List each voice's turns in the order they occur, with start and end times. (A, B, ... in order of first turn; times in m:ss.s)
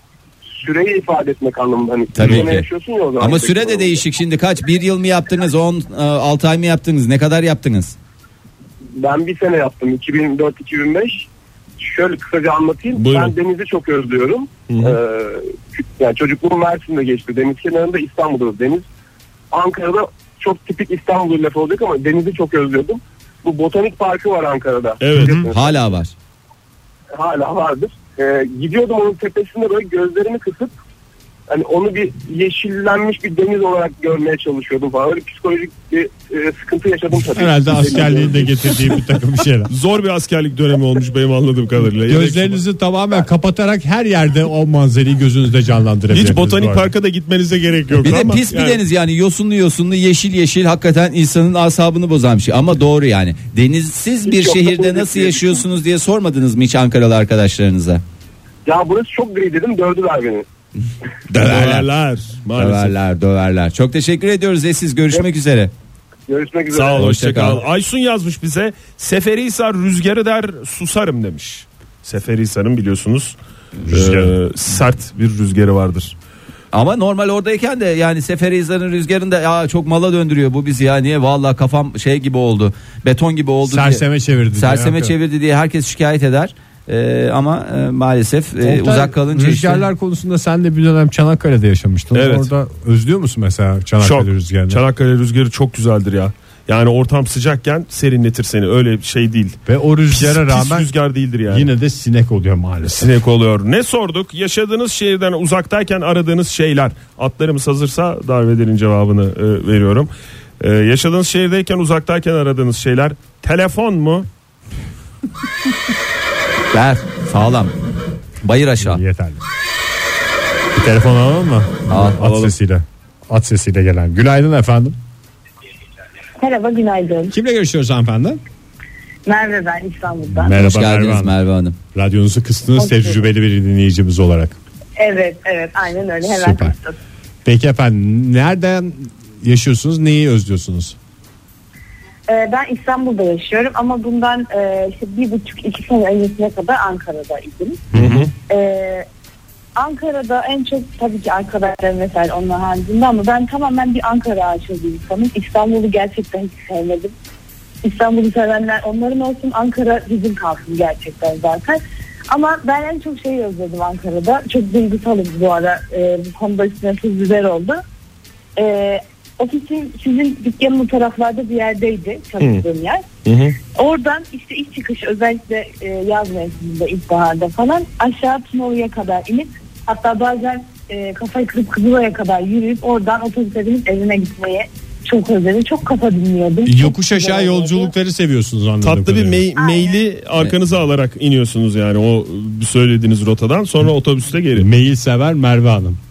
0:00.6-0:04.0 A
0:02.1-0:02.7 B
0:02.2-0:02.5 C
0:03.2-0:08.0 B
0:09.0-0:11.3 A
0:11.8-0:18.9 A
0:13.0-0:13.4 C
0:14.7-0:15.0 C
0:19.5-0:25.8 A
0:25.0-0:25.4 C
0:25.2-0:25.4 D
0:25.5-0:26.1 B
0:27.2-0:30.7 A
0:31.5-0:38.6 A
0:37.3-0:39.7 D
0:39.7-0:42.6 C
0:42.1-0:46.9 D
0:46.1-0:48.8 C
0:48.0-0:58.0 B
0:54.2-0:55.6 A
0:58.7-1:00.5 A
1:01.3-1:01.9 B
1:01.3-1:03.0 C
1:02.6-1:05.7 B
1:06.3-1:07.1 A
1:06.7-1:13.4 C
1:07.0-1:07.6 B
1:13.9-1:14.4 D
1:13.9-1:16.2 C
1:16.7-1:24.0 B
1:23.7-1:25.1 D
1:24.6-1:29.9 B
1:28.6-1:34.8 D
1:32.1-1:32.5 C
1:34.0-1:39.6 C
1:39.7-1:40.9 D
1:40.1-1:41.7 C
1:41.5-1:43.1 D
1:42.8-1:54.3 C
1:56.7-1:57.7 B
1:58.4-1:59.0 B
1:58.8-1:59.4 D
2:00.7-2:05.0 D
2:01.9-2:02.2 B
2:02.2-2:02.5 C
2:06.4-2:07.3 E
2:07.3-2:08.4 D
2:09.3-2:10.6 E
2:10.3-2:11.4 D
2:10.6-2:11.8 B
2:12.0-2:14.6 D
2:12.8-2:13.2 E
2:15.0-2:16.9 E
2:16.2-2:16.8 D
2:17.4-2:21.0 D
2:22.3-2:27.8 E
2:27.9-2:28.3 D
2:28.0-2:28.3 C
2:28.5-2:29.1 E
2:29.8-2:37.1 E
2:37.8-2:47.8 E
2:48.6-2:53.0 E
2:53.2-2:53.6 C
2:53.8-3:07.9 E
3:06.6-3:09.5 D
3:08.8-3:14.7 C
3:09.6-3:10.0 E
3:14.6-3:16.0 D